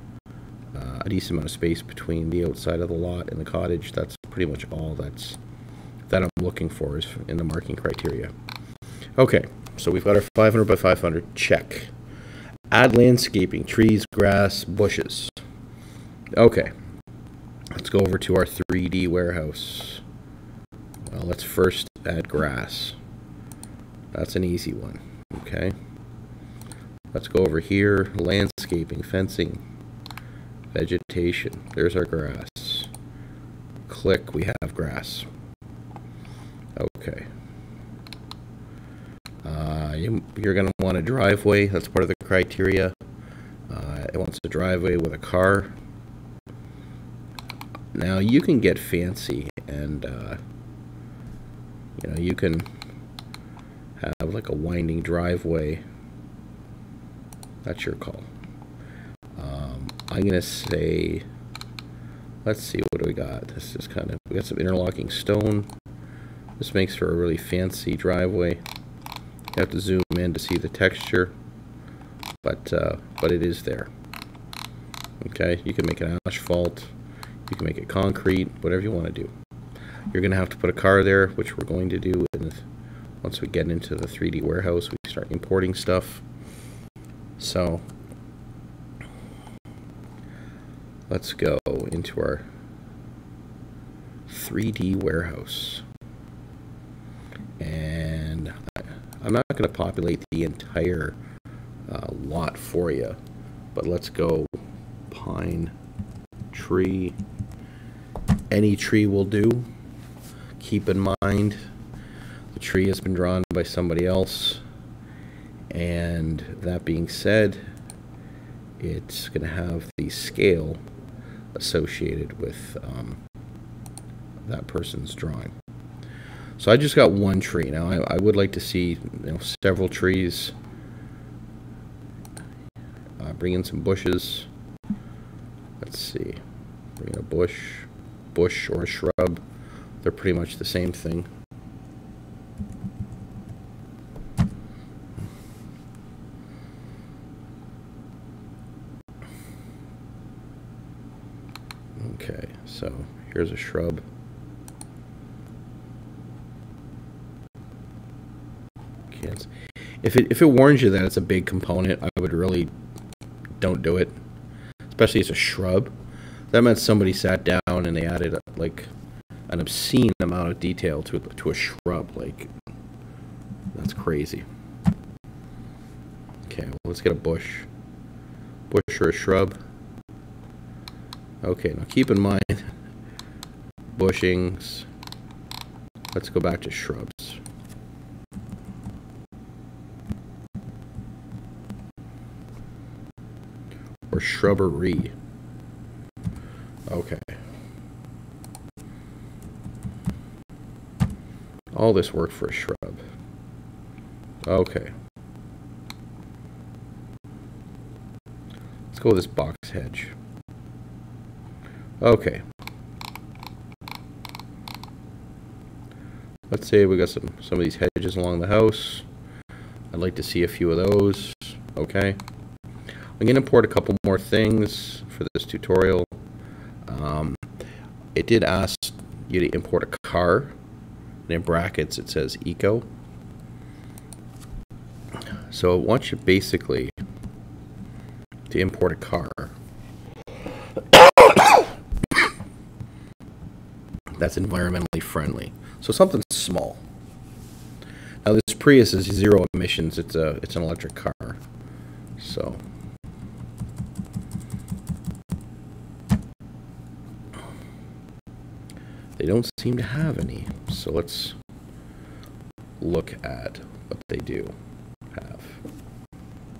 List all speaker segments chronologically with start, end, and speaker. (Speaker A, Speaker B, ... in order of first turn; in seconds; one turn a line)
Speaker A: 0.7-5.4
Speaker A: 6.1-8.3
Speaker A: 9.2-11.9
Speaker A: 12.7-15.3
Speaker A: 16.4-16.7
Speaker A: 17.7-20.0
Speaker A: 21.1-23.0
Speaker A: 24.1-25.8
Speaker A: 27.1-29.6
Speaker A: 30.7-32.9
Speaker A: 33.9-35.2
Speaker A: 36.8-37.3
Speaker A: 39.4-43.0
Speaker A: 43.7-45.7
Speaker A: 47.9-50.4
Speaker A: 52.0-52.7
Speaker A: 54.0-55.8
Speaker A: 57.6-58.3
Speaker A: 59.4-61.2
Speaker A: 62.4-65.7
Speaker A: 66.6-68.6
Speaker A: 69.5-71.3
Speaker A: 72.4-73.9
Speaker A: 75.2-76.9
Speaker A: 77.5-79.3
Speaker A: 80.1-82.7
Speaker A: 83.2-86.2
Speaker A: 87.4-87.8
Speaker A: 91.1-92.5
Speaker A: 94.3-95.8
Speaker A: 97.6-101.2
Speaker A: 101.9-103.2
Speaker A: 103.7-104.6
Speaker A: 105.1-105.7
Speaker A: 106.5-107.2
Speaker A: 108.5-109.7
Speaker A: 110.6-111.6
Speaker A: 112.5-114.6
Speaker A: 115.7-117.6
Speaker A: 118.8-120.8
Speaker A: 121.5-123.2
Speaker A: 124.4-125.5
Speaker A: 126.6-130.5
Speaker A: 133.2-134.5
Speaker A: 135.8-136.4
Speaker A: 137.0-139.4
Speaker A: 140.0-141.3
Speaker A: 152.0-154.0
Speaker A: 159.1-159.5
Speaker A: 160.0-162.7
Speaker A: 163.6-164.2
Speaker A: 164.9-165.9
Speaker A: 166.5-168.9
Speaker A: 169.5-172.5
Speaker A: 173.7-174.4
Speaker A: 176.4-177.7
Speaker A: 178.7-179.6
Speaker A: 181.4-182.7
Speaker A: 183.9-184.9
Speaker A: 186.1-187.4
Speaker A: 194.1-195.1
Speaker A: 196.9-197.4
Speaker A: 201.7-203.0
Speaker A: 204.4-204.9
Speaker A: 208.9-210.2
Speaker A: 212.0-212.4
Speaker A: 216.5-219.1
Speaker A: 219.9-222.2
Speaker A: 223.2-226.1
Speaker A: 226.8-227.4
Speaker A: 228.1-230.5
Speaker A: 231.3-232.9
Speaker A: 235.5-236.9
Speaker A: 238.5-239.5
Speaker A: 240.9-241.7
Speaker A: 244.2-246.8
Speaker A: 248.2-251.4
Speaker A: 252.2-252.6
Speaker A: 259.2-261.4
Speaker A: 262.8-264.5
Speaker A: 265.1-265.6